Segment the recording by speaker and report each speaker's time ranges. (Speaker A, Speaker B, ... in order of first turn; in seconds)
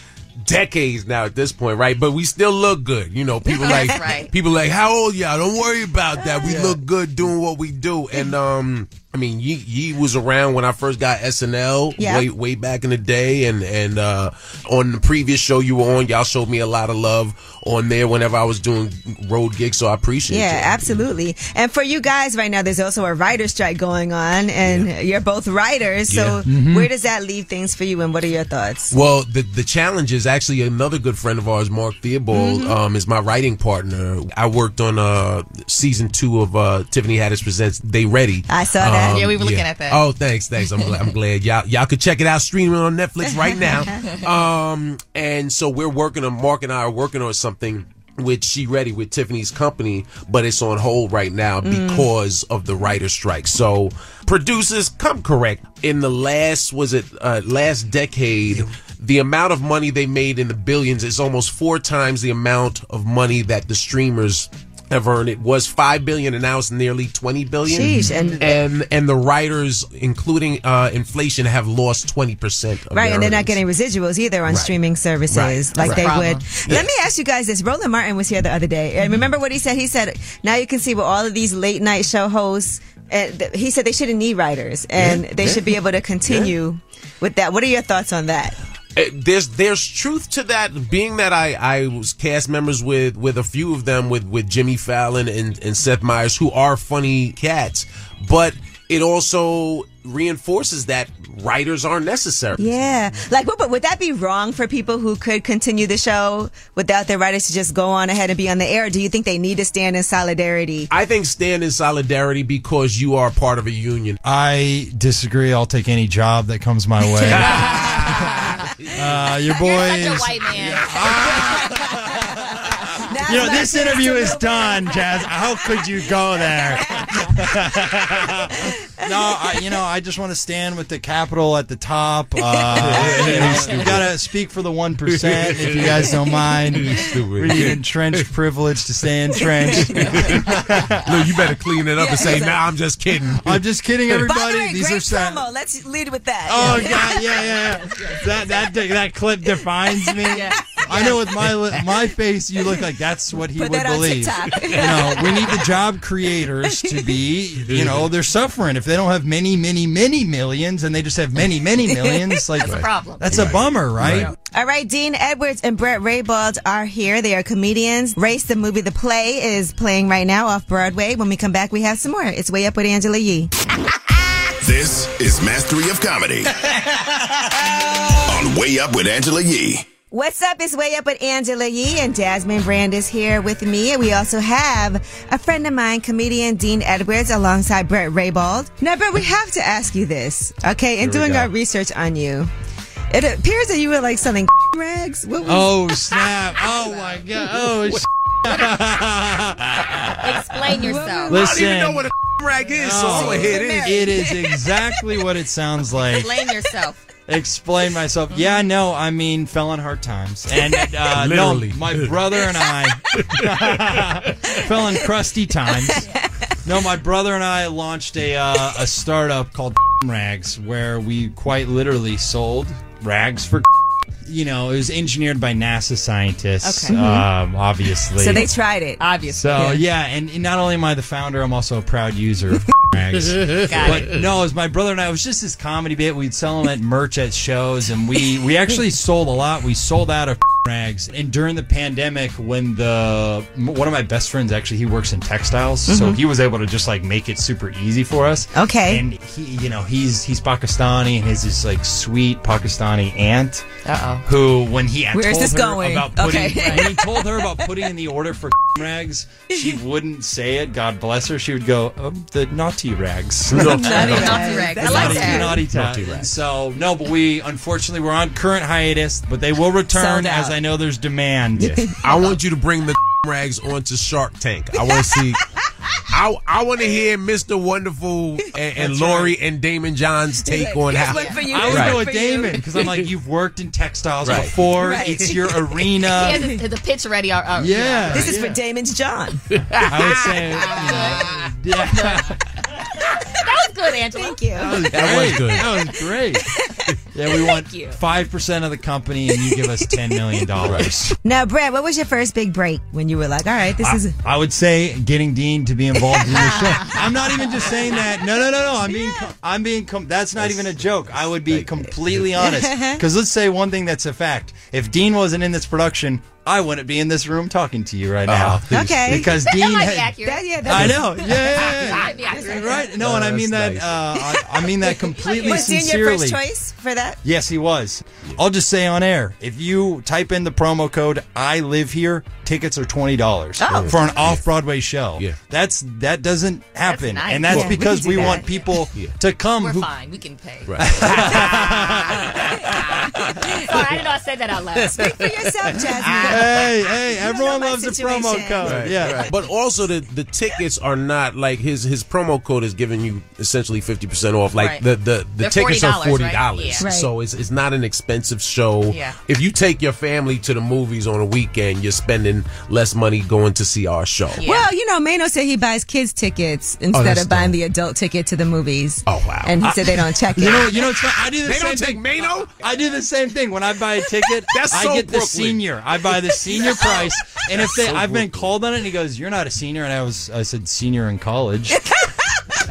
Speaker A: 0.4-20.9, 24.6-24.9, 26.1-26.5, 28.9-73.6, 74.5-74.7, 75.3-76.0, 85.0-85.7, 86.3-86.5, 89.0-102.7, 110.9-114.2, 117.3-119.3, 132.8-134.2, 135.1-138.3, 139.8-140.5, 141.0-143.6, 154.5-155.0, 157.6-158.1, 162.7-164.3, 191.0-191.5, 197.8-198.0, 201.3-204.1, 211.1-212.2, 213.1-214.5, 263.5-264.3, 265.7-266.3, 271.6-275.4, 276.1-282.0, 284.2-284.5, 289.5-290.3, 294.9-295.7, 300.6-301.0, 310.4-312.3, 318.3-319.3, 323.0-324.0, 333.6-334.5, 340.7-341.5, 348.6-364.4, 366.9-367.6, 369.1-369.6, 370.5-372.6, 374.5-375.6, 376.6-378.5
Speaker B: 3.5-4.2, 6.2-6.6, 12.0-12.3, 20.3-28.9, 32.3-32.8, 38.5-39.3, 43.2-44.0, 51.6-52.1, 67.7-68.5, 72.9-88.6, 102.6-110.9, 121.2-127.3, 128.2-129.6, 139.4-140.1, 142.0-142.6, 144.1-147.6, 149.9-151.2, 153.5-155.7, 156.6-157.1, 161.9-162.3, 164.5-173.5, 180.1-192.5, 193.1-195.8, 200.7-201.5, 203.1-204.5, 215.7-216.3, 226.9-227.3, 228.2-229.0, 245.9-246.2, 248.5-249.1, 255.1-257.7, 259.5-259.8, 263.5-265.6, 269.9-270.6, 271.6-272.0, 274.8-275.2, 280.4-282.7, 284.6-286.6, 288.1-289.4, 294.1-294.9, 299.4-300.2, 301.2-304.2, 308.9-309.3, 312.4-313.0, 318.7-319.4, 320.2-322.8, 324.2-327.2, 333.6-334.2, 337.5-338.5, 344.9-349.3, 356.8-357.1, 364.4-370.8, 376.6-376.9, 381.7-382.4
Speaker C: 3.5-4.3, 39.0-40.0, 40.6-41.1, 68.1-68.5, 75.8-76.5, 117.4-118.7, 119.5-121.8, 150.3-151.2, 162.6-163.5, 196.2-197.3, 200.2-201.4, 205.9-207.0, 226.6-227.0, 229.0-229.8, 233.6-234.2, 253.8-254.3, 256.6-256.9, 263.7-265.7, 281.1-281.5, 286.1-288.3, 290.1-292.4, 293.0-294.9, 297.3-298.0, 306.3-306.9, 319.4-323.0, 325.0-325.8, 336.8-338.7, 339.5-345.3, 346.1-346.5, 354.6-354.8, 355.4-356.9, 358.9-359.2, 364.4-364.7
Speaker D: 6.5-6.8, 26.5-26.9, 58.5-58.8, 114.2-118.4, 118.9-122.4, 123.2-141.1, 143.3-145.4, 146.5-164.3, 195.4-199.9, 201.3-202.1, 202.7-206.3, 207.3-216.0, 216.7-223.7, 224.2-228.5, 229.3-253.7, 254.2-271.9, 278.8-279.4, 281.4-286.5, 287.6-288.6, 289.8-292.4, 294.6-296.5, 297.1-301.1, 303.8-326.4, 327.2-339.9, 340.8-342.4, 346.2-349.3, 369.6-381.8
Speaker E: 174.6-176.5, 178.2-179.8